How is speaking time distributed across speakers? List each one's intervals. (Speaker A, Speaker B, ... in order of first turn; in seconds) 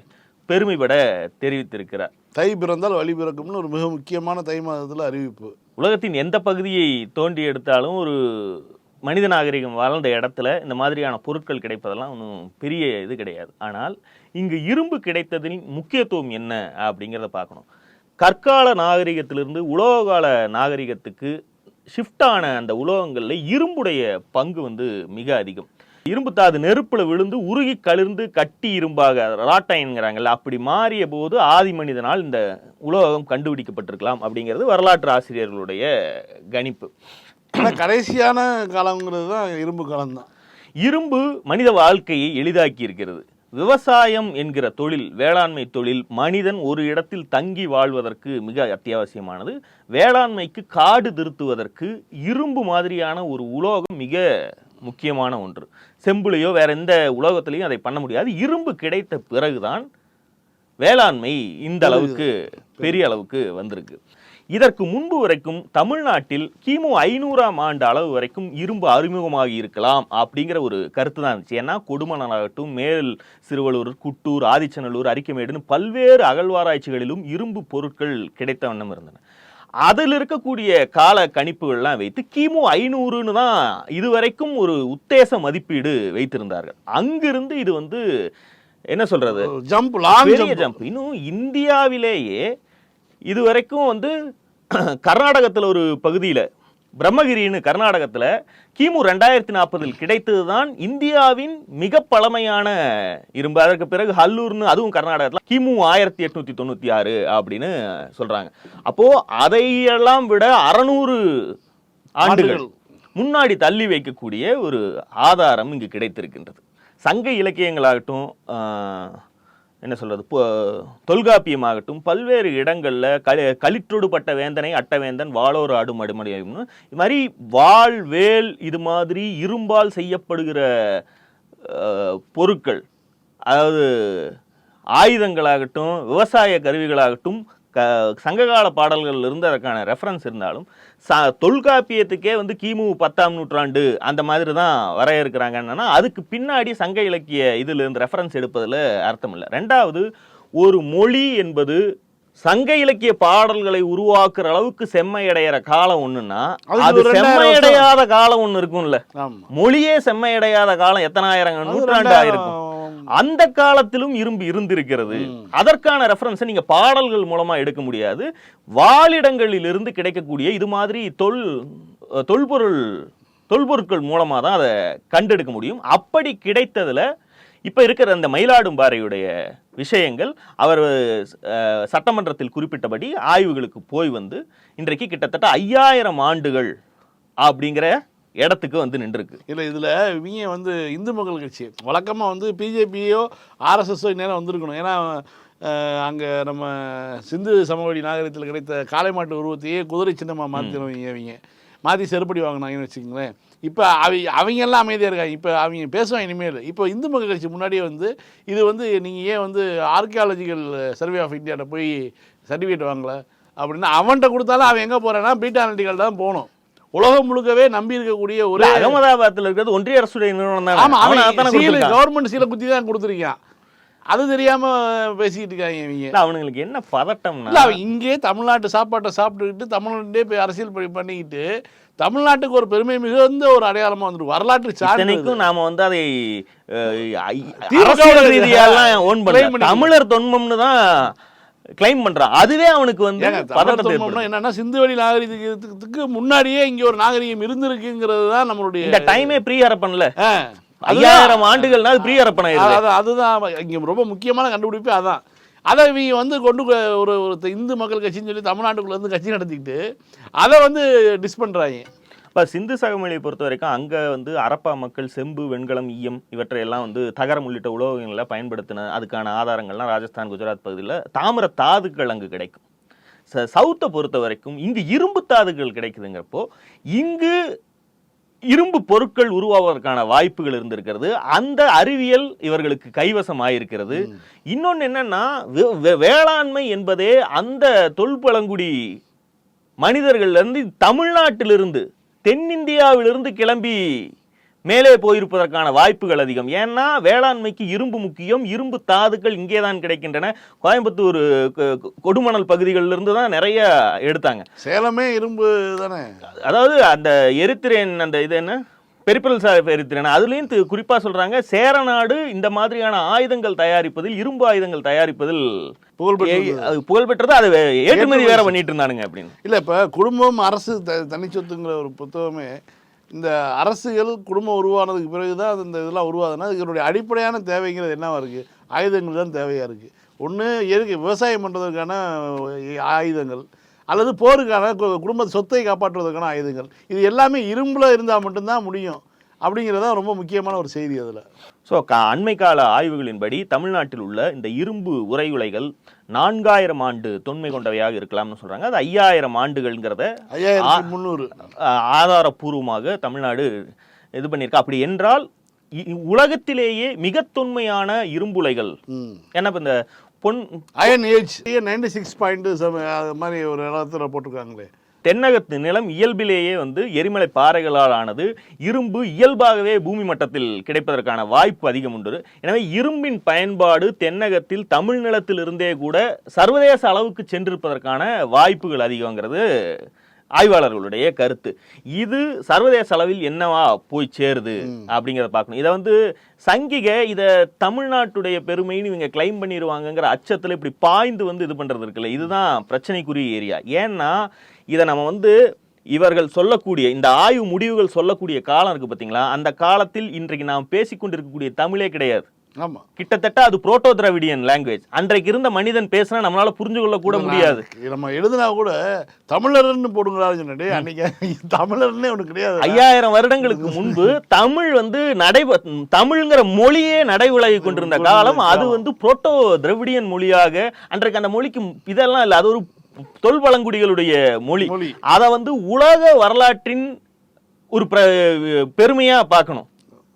Speaker A: 0.5-2.1, 5.8-17.6, 18.2-21.3, 21.9-35.9, 36.5-36.9, 40.9-54.2, 54.8-59.9, 60.8-64.0, 64.5-79.2, 79.9-88.0, 88.9-89.5, 90.2-92.4, 93.3-94.1, 95.0-96.5, 97.0-102.7, 103.4-111.2, 112.2-112.6, 113.2-119.2, 119.8-130.6, 131.7-132.8, 133.5-134.3, 135.0-150.1, 150.6-151.8, 152.4-159.0, 159.5-162.5, 163.2-168.3, 168.8-171.4, 172.3-172.8, 173.5-177.0, 177.7-179.2, 179.8-180.9, 181.5-186.7, 187.4-187.9, 188.4-189.4, 200.6-200.8, 218.6-222.0, 226.1-227.8, 234.8-236.1, 236.8-241.1, 241.8-244.3, 248.8-250.1, 250.9-252.8, 262.4-272.6, 273.3-277.3, 278.5-288.7, 289.8-293.8, 294.7-304.4, 306.4-308.6, 309.1-315.4, 316.2-319.3, 341.7-350.1, 350.6-350.9, 351.6-353.5, 354.2-355.3, 355.8-358.8, 359.4-360.9, 365.1-379.4, 380.4-386.0, 386.5-394.1, 394.7-395.3, 395.9-402.3, 403.0-407.7, 412.6-422.7, 423.2-426.9, 427.7-429.7
Speaker B: 2.4-5.5, 37.6-40.3, 61.8-62.2, 62.8-63.0, 89.3-90.8, 112.2-112.7, 156.7-157.9, 159.2-159.5, 161.7-163.1, 165.1-165.5, 189.5-212.0, 212.5-219.0, 220.8-223.4, 224.1-226.1, 227.5-231.4, 232.0-235.4, 237.7-239.9, 243.2-249.3, 250.2-259.8, 260.4-261.9, 304.6-306.1, 316.0-316.7, 317.9-318.5, 319.4-322.6, 323.1-341.2, 350.3-351.3, 358.9-359.2, 360.8-364.7, 407.1-412.8, 413.4-414.1, 417.6-418.8, 424.6-425.0